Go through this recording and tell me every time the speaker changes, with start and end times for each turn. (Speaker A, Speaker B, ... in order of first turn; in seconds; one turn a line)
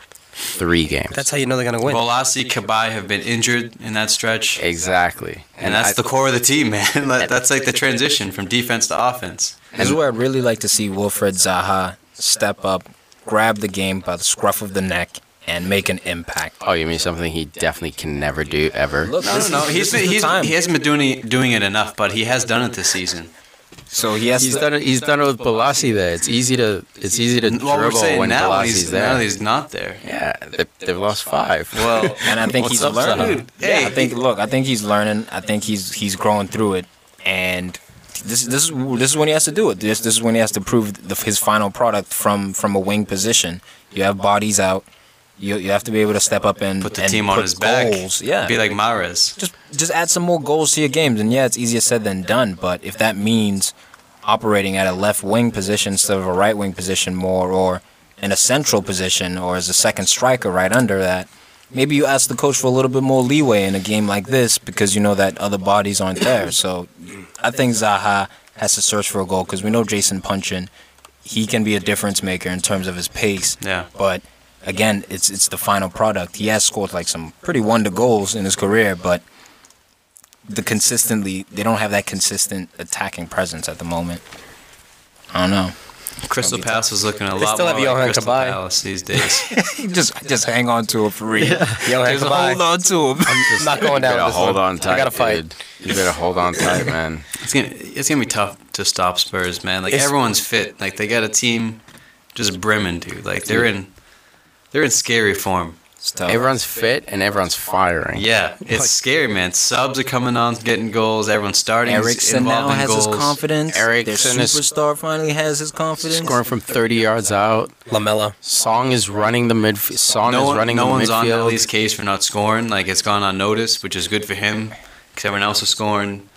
Speaker A: 0.5-1.3
Speaker B: 1.1-2.0
Speaker C: 1.9-4.6
Speaker A: 4.6-6.0
Speaker C: 5.6-9.6
Speaker D: 9.7-16.6
Speaker A: 16.6-19.2
Speaker D: 19.0-20.5
Speaker C: 19.2-23.3
Speaker D: 23.9-24.6
Speaker A: 24.4-29.2
Speaker C: 27.4-30.0
Speaker A: 30.0-33.4
Speaker C: 31.7-32.3
Speaker D: 32.2-44.9
Speaker C: 32.9-34.1
Speaker D: 45.4-48.6
Speaker C: 46.8-49.4
Speaker D: 49.4-53.7
Speaker D: 54.2-70.7
Speaker D: 71.2-79.2
Speaker C: 73.6-73.9
Speaker D: 80.5-84.2
Speaker D: 85.3-85.7
Speaker C: 86.2-89.5
Speaker D: 86.3-86.8
Speaker B: 87.4-88.6
Speaker D: 89.4-93.9
Speaker A: 91.4-91.8
Speaker B: 91.8-92.6
Speaker A: 93.3-97.2
Speaker B: 93.5-95.4
Speaker C: 97.4-101.8
Speaker C: 102.3-103.9
Speaker C: 104.7-105.8
Speaker D: 106.0-106.4
Speaker A: 106.2-108.9
Speaker C: 108.1-113.4
Speaker D: 111.8-116.4
Speaker A: 113.7-114.6
Speaker A: 116.0-117.7
Speaker B: 117.9-118.3
Speaker A: 118.4-121.6
Speaker C: 120.2-126.3